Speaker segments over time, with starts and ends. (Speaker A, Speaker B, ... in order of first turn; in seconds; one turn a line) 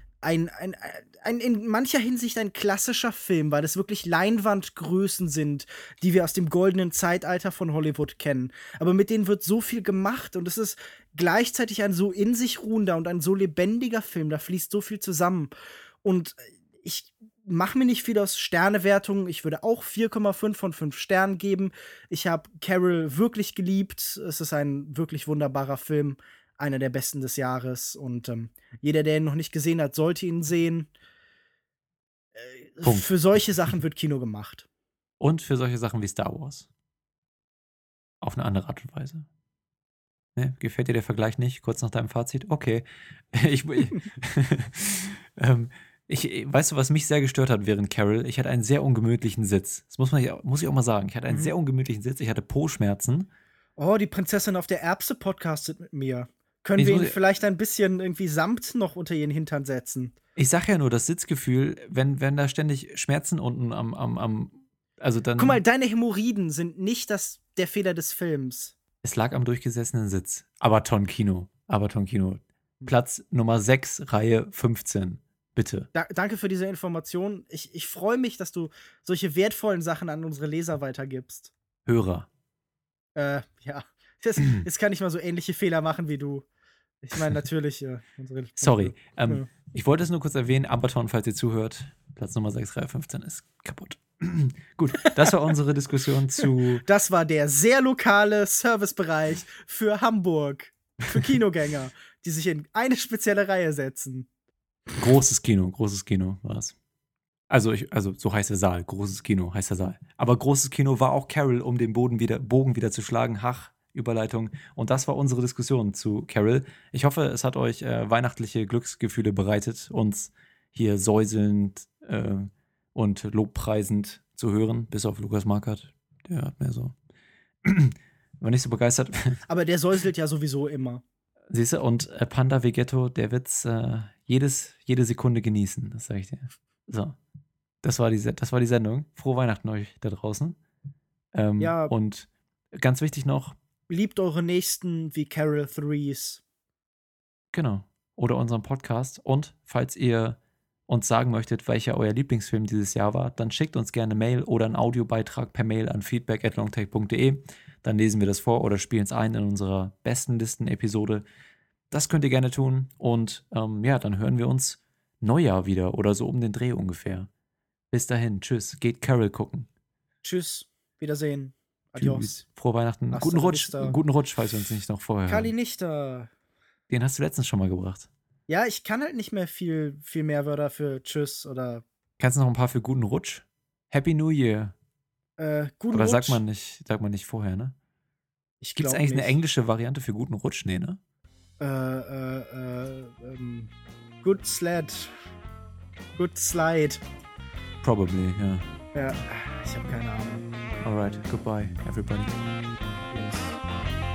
Speaker A: 0.2-15.5
Speaker A: 16.0-30.9
Speaker A: 32.4-34.7
Speaker B: 32.8-33.1
Speaker B: 35.2-36.7
Speaker B: 38.2-39.2
Speaker B: 40.4-53.3
Speaker A: 53.8-60.1
Speaker B: 56.8-57.1
Speaker B: 60.4-65.6
Speaker A: 65.4-68.8
Speaker B: 69.0-75.9
Speaker A: 75.9-81.5
Speaker B: 81.9-82.3
Speaker A: 83.2-86.5
Speaker A: 87.0-89.5
Speaker B: 88.6-96.8
Speaker A: 95.0-95.3
Speaker A: 96.8-104.3
Speaker B: 105.0-106.7
Speaker B: 107.5-126.9
Speaker B: 127.6-129.4
Speaker A: 129.5-131.0
Speaker B: 131.5-137.2
Speaker B: 137.8-140.6
Speaker B: 141.3-143.6
Speaker A: 141.6-141.9
Speaker A: 143.9-146.4
Speaker B: 147.5-161.2
Speaker B: 161.9-167.3
Speaker B: 167.9-169.7
Speaker A: 170.2-172.4
Speaker B: 172.0-175.5
Speaker A: 173.1-174.0
Speaker A: 175.3-176.3
Speaker B: 176.9-178.1
Speaker A: 178.5-181.8
Speaker B: 182.2-184.7
Speaker A: 185.4-186.4
Speaker B: 185.9-187.7
Speaker A: 188.6-189.4
Speaker B: 188.8-191.0
Speaker A: 191.6-193.7
Speaker A: 194.2-195.1
Speaker A: 196.2-197.0
Speaker B: 197.8-198.7
Speaker A: 198.9-200.4
Speaker B: 200.8-202.4
Speaker B: 203.1-203.6